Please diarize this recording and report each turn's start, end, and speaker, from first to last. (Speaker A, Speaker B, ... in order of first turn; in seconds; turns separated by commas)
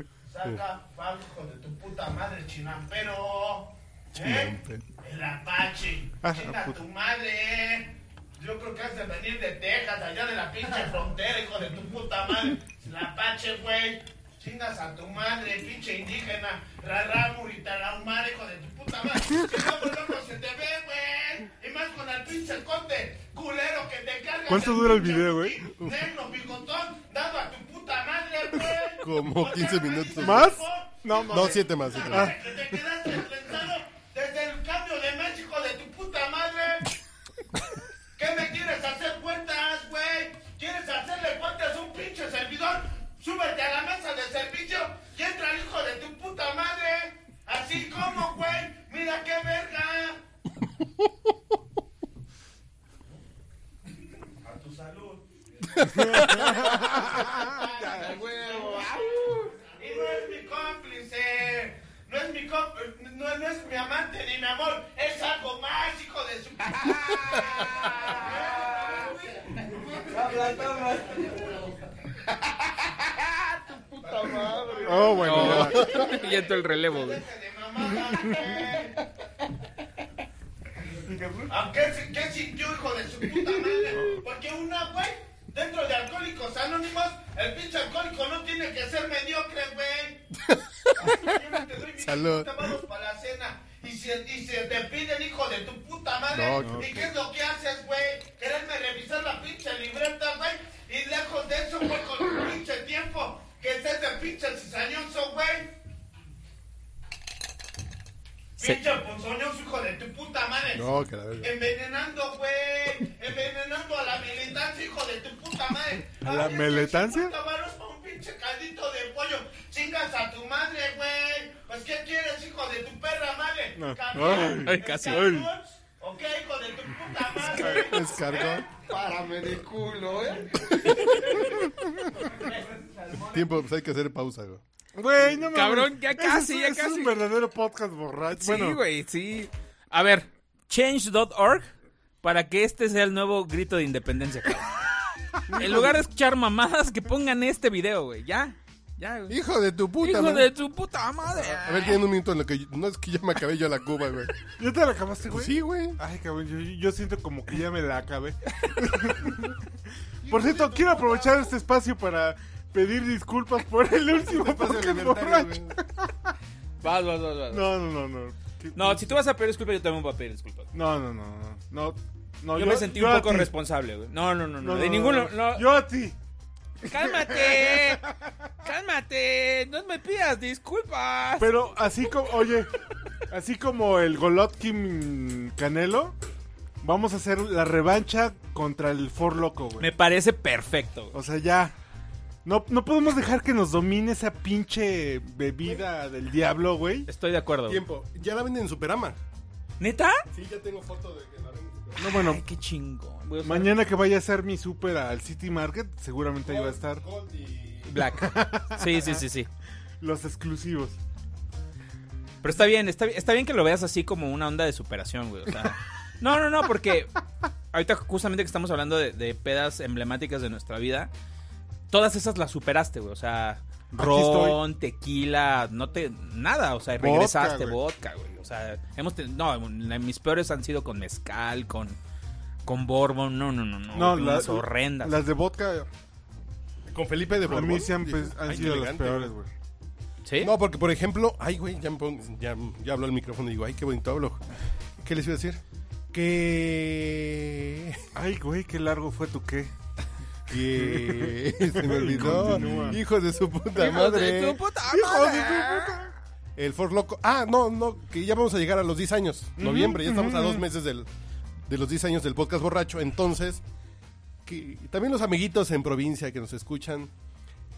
Speaker A: 0.3-36.9, Speaker B: 4.2-4.8, Speaker C: 6.2-6.8, Speaker C: 24.5-25.7, Speaker B: 29.0-30.6, Speaker C: 30.2-32.4, Speaker B: 31.3-32.3, Speaker A: 38.2-50.2, Speaker A: 54.4-59.1, Speaker C: 55.9-58.1, Speaker D: 57.8-59.6, Speaker A: 59.6-69.2, Speaker D: 66.9-69.2, Speaker D: 69.9-71.6, Speaker A: 70.1-71.0, Speaker D: 73.7-75.4, Speaker A: 74.0-79.0, Speaker C: 74.8-75.9, Speaker E: 75.2-77.2, Speaker D: 78.4-78.9, Speaker C: 81.0-81.5, Speaker A: 81.5-90.2, Speaker C: 83.9-84.2, Speaker B: 90.5-91.2, Speaker A: 91.0-105.7, Speaker B: 92.0-92.7, Speaker B: 96.3-97.1, Speaker C: 96.6-96.9, Speaker A: 108.6-110.9, Speaker B: 110.7-111.5, Speaker A: 111.4-128.7, Speaker C: 116.2-117.3, Speaker C: 123.8-125.5, Speaker E: 124.3-125.2, Speaker C: 127.5-127.9, Speaker E: 127.6-127.9, Speaker B: 127.7-128.7, Speaker D: 128.7-131.3, Speaker A: 131.0-131.5, Speaker A: 132.3-133.5, Speaker B: 133.2-134.6, Speaker C: 134.9-138.8, Speaker E: 135.5-137.2, Speaker E: 138.4-141.7, Speaker E: 142.2-144.7, Speaker C: 145.5-146.0, Speaker E: 145.5-149.4, Speaker B: 149.3-150.5, Speaker E: 150.0-152.0, Speaker B: 151.4-154.3, Speaker C: 154.6-159.6, Speaker B: 155.3-156.0, Speaker B: 160.2-161.3, Speaker C: 160.3-166.1, Speaker B: 164.2-165.8, Speaker E: 166.8-167.7, Speaker C: 167.5-169.1, Speaker E: 168.7-170.7, Speaker C: 170.7-173.5, Speaker E: 172.6-175.7, Speaker C: 174.6-176.2, Speaker E: 176.8-178.0, Speaker C: 177.2-177.9, Speaker E: 178.6-181.5, Speaker C: 181.4-182.8, Speaker C: 183.3-186.2, Speaker C: 186.8-189.9, Speaker E: 189.8-191.2, Speaker C: 191.1-191.7, Speaker C: 192.4-197.1, Speaker E: 197.1-197.8, Speaker B: 197.7-199.2, Speaker E: 199.8-200.2, Speaker B: 200.3-202.2, Speaker C: 202.0-202.4, Speaker E: 202.0-203.8, Speaker C: 203.4-207.1, Speaker B: 206.4-208.1, Speaker E: 207.9-209.5, Speaker C: 208.2-209.2, Speaker C: 210.0-211.0, Speaker E: 212.4-217.2, Speaker E: 217.7-221.1, Speaker E: 221.9-232.0, Speaker C: 223.9-224.6, Speaker C: 227.0-227.8, Speaker E: 232.7-235.2, Speaker C: 233.9-235.9, Speaker B: 236.9-239.3, Speaker C: 237.5-239.5, Speaker E: 240.2-240.5, Speaker B: 240.4-244.4, Speaker B: 245.0-245.6, Speaker B: 246.1-248.0, Speaker C: 248.1-249.7, Speaker B: 250.5-254.6, Speaker C: 250.5-253.0, Speaker E: 253.8-256.1, Speaker C: 253.9-256.1, Speaker B: 256.6-261.1, Speaker C: 259.6-260.7, Speaker B: 261.7-263.6, Speaker B: 264.5-267.1